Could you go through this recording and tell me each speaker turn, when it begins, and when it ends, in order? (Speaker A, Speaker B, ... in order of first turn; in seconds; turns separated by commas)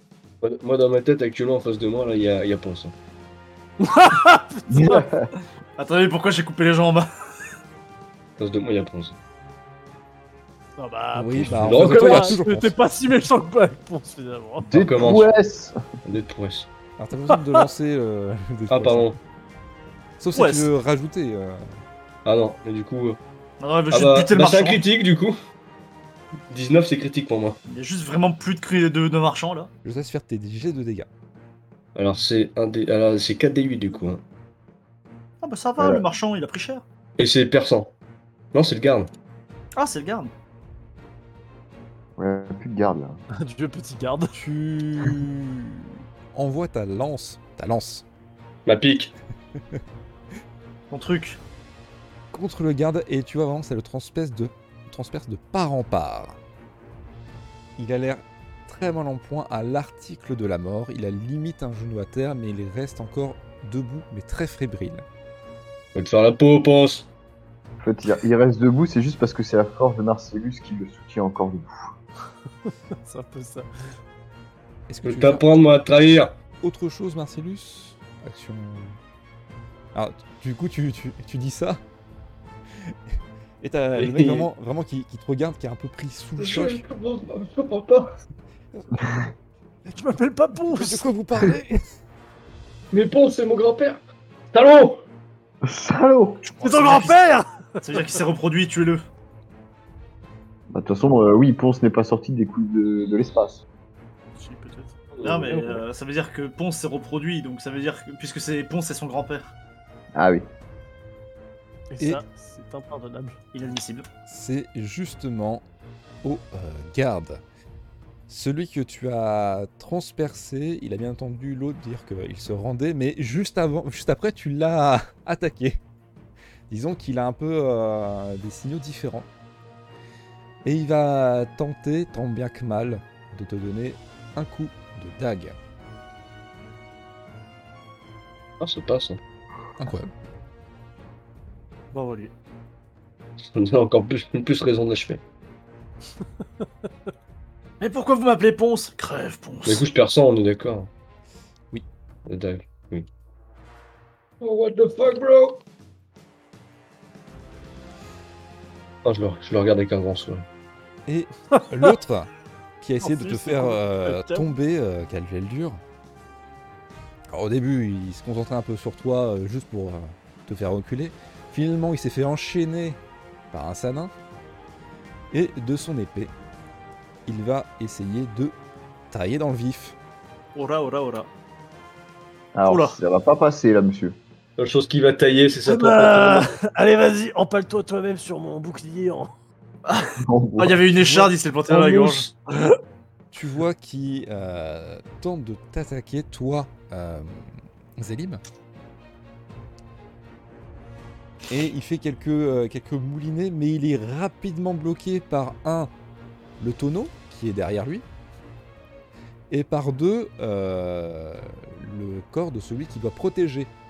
Speaker A: 0.4-2.9, Speaker B: 3.8-5.1, Speaker C: 4.7-5.3, Speaker D: 5.8-7.0, Speaker A: 8.4-9.2, Speaker B: 10.8-14.7, Speaker E: 11.1-12.8, Speaker A: 11.5-12.4, Speaker C: 14.7-15.8, Speaker A: 14.7-15.3, Speaker A: 16.0-16.7, Speaker E: 17.0-19.2, Speaker B: 17.3-17.6, Speaker A: 18.7-19.1, Speaker E: 20.2-21.7, Speaker D: 20.3-20.7, Speaker A: 22.2-23.2, Speaker D: 23.6-24.8, Speaker A: 23.9-25.4, Speaker A: 26.5-27.6, Speaker D: 27.7-29.7, Speaker E: 29.8-31.1, Speaker A: 31.9-34.2, Speaker D: 35.4-36.8, Speaker C: 35.8-36.0, Speaker A: 37.2-37.9, Speaker A: 38.5-39.1, Speaker D: 39.8-40.3, Speaker C: 42.2-43.2, Speaker B: 43.4-44.3, Speaker E: 44.3-48.0, Speaker A: 48.6-49.1, Speaker D: 50.9-51.4, Speaker E: 52.3-56.4, Speaker E: 57.8-65.0, Speaker A: 65.9-67.1, Speaker C: 67.8-71.8, Speaker B: 72.6-73.7, Speaker E: 74.9-75.5, Speaker A: 75.0-76.3, Speaker E: 76.6-79.0, Speaker E: 79.9-81.8, Speaker E: 83.6-86.8, Speaker A: 83.9-84.5, Speaker A: 86.4-88.1, Speaker C: 89.0-89.2, Speaker B: 89.9-91.1, Speaker E: 90.6-91.8, Speaker A: 92.9-95.0, Speaker C: 95.6-96.4, Speaker D: 96.4-97.2, Speaker B: 96.6-98.0, Speaker D: 97.8-99.0, Speaker C: 100.7-103.6, Speaker D: 104.4-109.5, Speaker A: 105.1-105.8, Speaker C: 110.1-110.4, Speaker B: 111.9-113.4, Speaker D: 113.5-114.0, Speaker E: 114.3-115.6, Speaker E: 116.2-117.4, Speaker E: 118.3-125.8, Speaker E: 126.7-129.3, Speaker E: 130.6-135.6, Speaker A: 138.6-139.2, Speaker E: 139.8-140.1, Speaker D: 141.9-142.3, Speaker A: 143.5-145.2, Speaker D: 147.8-149.8, Speaker A: 149.6-150.9, Speaker A: 152.2-153.1, Speaker A: 154.4-155.6, Speaker A: 159.0-160.4, Speaker E: 161.1-162.3, Speaker E: 162.8-165.8, Speaker B: 163.0-164.5, Speaker E: 167.3-173.0, Speaker E: 173.5-174.1, Speaker E: 175.3-176.3, Speaker E: 177.2-178.5, Speaker E: 179.1-179.9, Speaker D: 180.5-181.3, Speaker C: 182.5-184.2, Speaker D: 182.7-182.9, Speaker A: 184.6-186.5, Speaker B: 185.7-189.3, Speaker D: 189.8-192.3, Speaker C: 190.2-190.9, Speaker A: 191.7-192.3, Speaker E: 193.3-198.4, Speaker E: 201.5-205.9, Speaker E: 206.6-208.0, Speaker E: 209.5-213.7